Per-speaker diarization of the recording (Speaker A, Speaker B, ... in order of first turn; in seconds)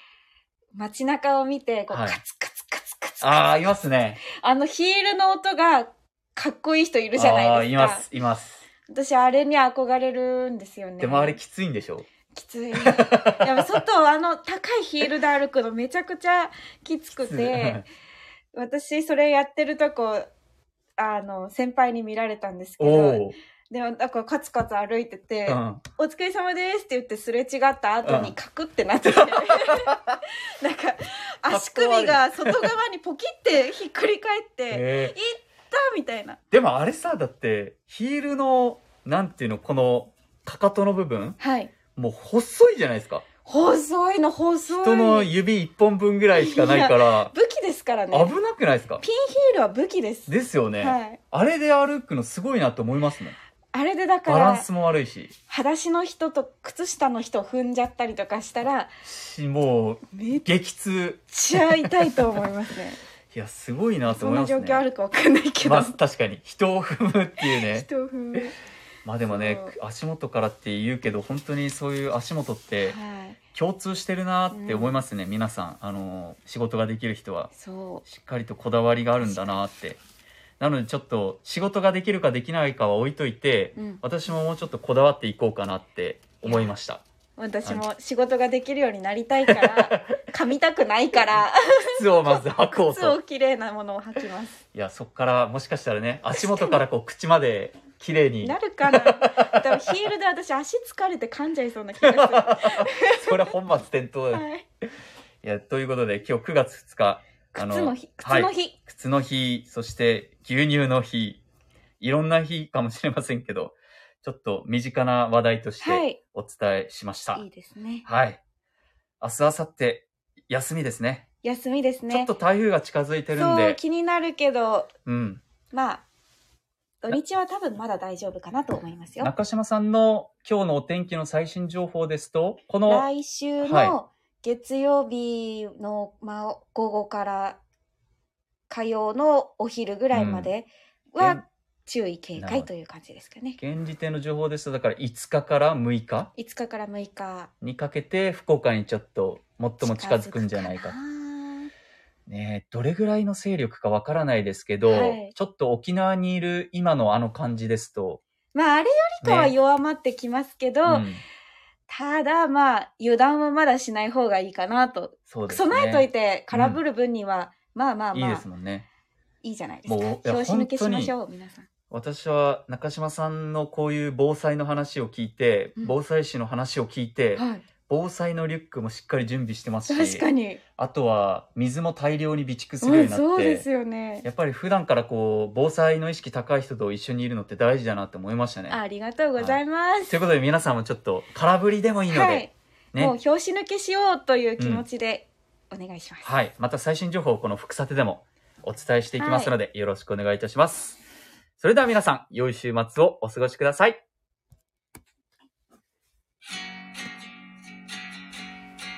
Speaker A: 0.7-3.7, 4.2-8.0, 8.9-11.4, 12.3-17.8, 18.5-20.2, 21.0-36.4, 41.4-41.7, 43.5-45.3, 46.3-48.3, 49.0-51.2, 53.7-54.6, 55.5-58.9, 60.1-60.5, 61.3-63.0, 64.1-66.0, 67.4-68.5, 69.2-69.7, 72.8-73.4, 74.5-75.0, 77.5-78.0, 83.8-84.0, 86.4-86.7, 87.4-94.6, 96.3-96.8, 98.4-103.5, 104.3-104.7, 107.5-108.8, 115.8-116.2, 117.3-118.0, 121.4-122.3, 123.3-124.9, 125.7-126.0, 127.0-129.3, 132.8-137.6, 138.7-143.6, 146.4-147.5, 149.8-151.7, 154.8-155.3, 158.5-161.1, 161.9-168.4, 169.4-171.7, 177.3-177.6, 179.9-180.6, 182.8-184.2, 188.7-190.1, 192.1-196.2, 199.2-199.5
Speaker B: 1.9-2.2, 3.2-4.2, 7.1-8.6, 11.0-12.1, 12.7-13.8, 17.1-17.8, 22.8-23.3, 25.5-25.8, 28.0-28.3, 29.2-29.9, 31.5-32.7, 34.7-35.1, 36.5-41.4, 41.9-43.2, 44.8-47.3, 48.1-49.0, 50.3-53.3, 54.2-55.3, 59.0-61.9, 63.3-64.8, 65.6-68.4, 69.0-73.0, 73.5-77.5, 78.0-80.0, 80.6-87.0, 89.5-90.2, 92.0-93.2, 94.7-99.6, 102.0-104.4, 105.4-111.4, 112.0-117.4, 118.0-118.4, 119.2-121.2, 122.1-123.8, 125.0-125.4, 129.2-133.1, 133.6-133.9, 140.1-140.5, 142.4-142.7, 143.6-146.3, 147.6-150.9, 152.3-158.2, 159.2-159.5, 160.8-161.2, 165.3-166.8, 168.1-168.8, 169.9-171.1, 171.9-180.2, 180.8-183.7, 184.2-188.8, 189.3-193.2, 194.6-194.8, 196.2-201.0, 201.6-204.0